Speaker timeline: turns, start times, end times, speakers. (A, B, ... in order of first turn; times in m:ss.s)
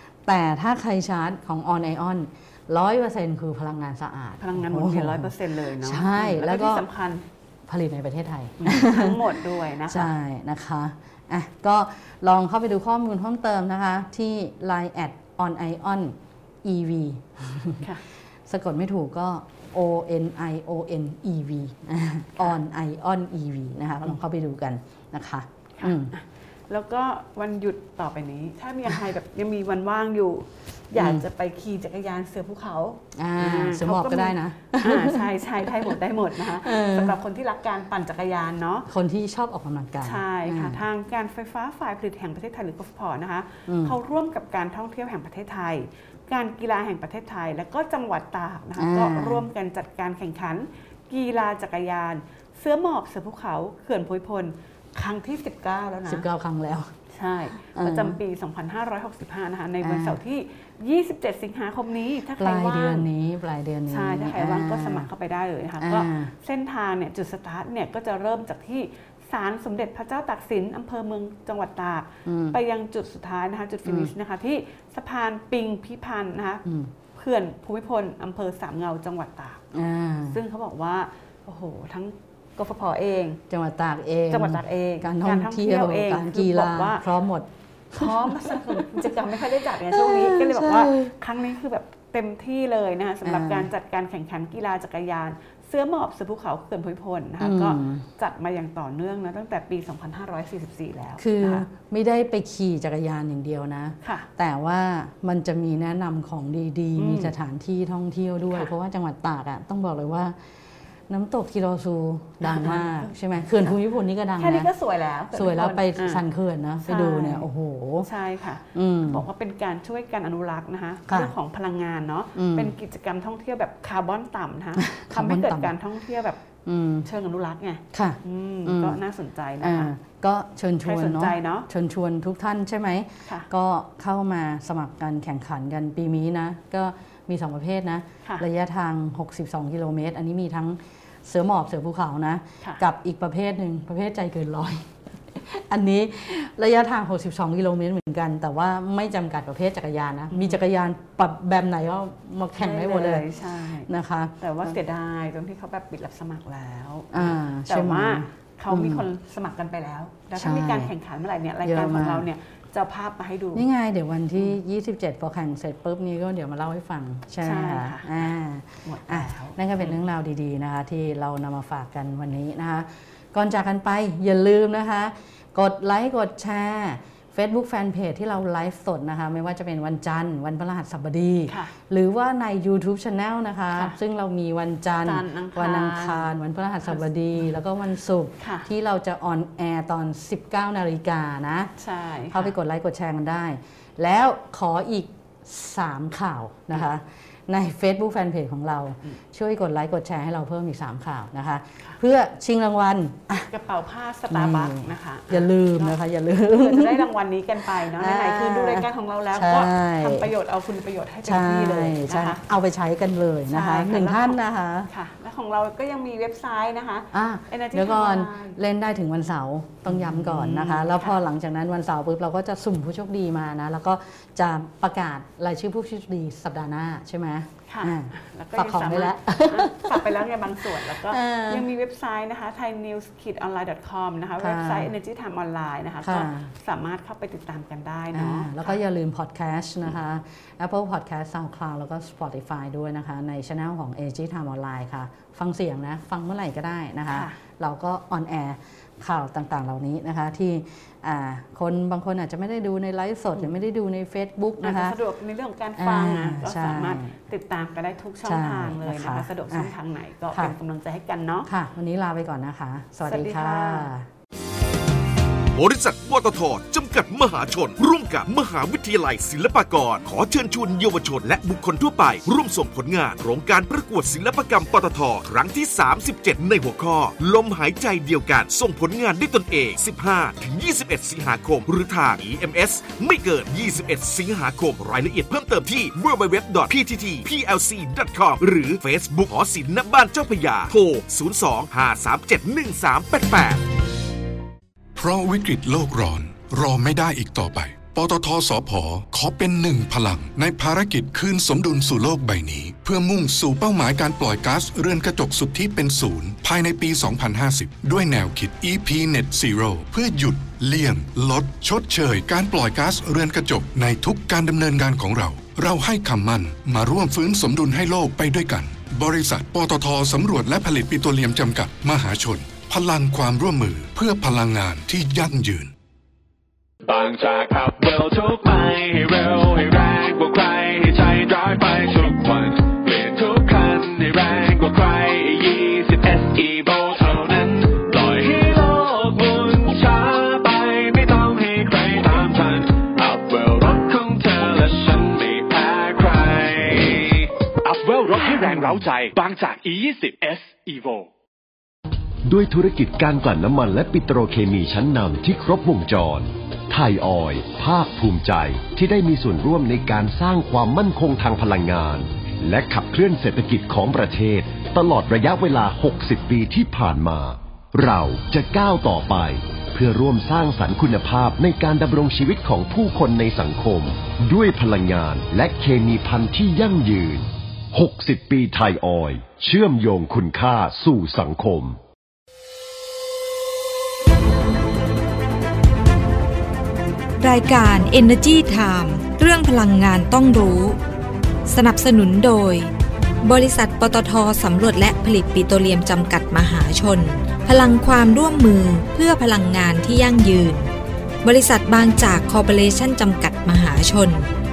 0:00.2-0:06.8 A
0:04.4-0:07.2 B
0:07.7-0:17.8 A
0:08.6-0:10.1 B
0:18.5-0:26.1 A
0:25.8-0:38.9 B
0:30.9-0:31.2 A
0:33.1-0:37.2 A
0:38.9-0:40.8 A
0:40.0-0:56.2 B
0:43.7-0:43.9 A
0:48.8-0:49.5 A
0:56.0-0:56.9 A
0:57.1-1:03.1 B
0:57.7-0:58.2 A
0:59.8-1:00.2 A
1:02.4-1:05.1 A
1:03.9-1:19.6 B
1:05.8-1:06.3 A
1:12.2-1:12.6 A
1:13.8-1:14.1 A
1:16.6-1:16.9 A
1:19.7-1:20.4 A
1:20.3-1:23.4 B
1:23.5-1:29.1 A
1:24.3-1:27.0 B
1:27.9-1:41.6 B
1:29.9-1:31.1 A
1:33.2-1:33.7 A
1:37.4-1:38.0 A
1:41.2-1:50.4 A
1:44.0-1:44.3 B
1:47.0-1:47.3 B
1:51.1-1:54.7 A
1:52.4-1:53.1 B
1:54.4-1:56.2 B
1:55.3-1:58.1 A
1:56.8-1:57.5 B
1:58.0-2:06.4 B
1:58.7-1:59.2 A
2:01.1-2:01.3 A
2:02.4-2:02.7 A
2:04.8-2:05.8 A
2:06.6-2:07.1 A
2:07.0-2:09.9 B
2:07.9-2:09.0 A
2:09.6-2:33.3 A
2:10.8-2:11.7 B
2:30.3-2:30.6 B
2:32.6-2:33.9 B
2:33.8-2:34.8 A
2:34.4-2:43.6 B
2:37.1-2:39.0 A
2:40.3-2:40.9 A
2:41.6-2:42.3 A
2:43.5-3:11.7 A
2:47.4-2:48.3 B
2:48.8-2:50.0 B
3:01.5-3:01.7 B
3:05.0-3:06.3 B
3:08.4-3:08.7 B
3:11.8-3:12.5 B
3:12.3-3:23.5 A
3:23.5-3:26.0 B
3:24.3-3:27.1 A
3:26.5-3:32.4 B
3:27.8-3:30.3 A
3:31.2-3:34.9 A
3:33.5-3:38.6 B
3:37.1-3:51.7 A
3:39.8-3:41.2 B
3:47.7-3:58.8 B
3:54.4-3:54.9 A
3:56.0-3:56.5 A
3:58.1-4:15.0 A
4:07.1-4:07.4 B
4:14.6-4:21.5 B
4:15.8-4:17.1 A
4:18.2-4:19.7 A
4:21.4-4:24.1 A
4:23.0-4:23.9 B
4:25.5-4:53.6 C
4:55.0-5:25.7 D
5:26.8-5:51.1 E
5:52.2-6:21.8 F
6:27.2-6:30.8 G
6:31.5-6:32.7 G
6:33.2-6:40.7 G
6:41.2-6:44.3 G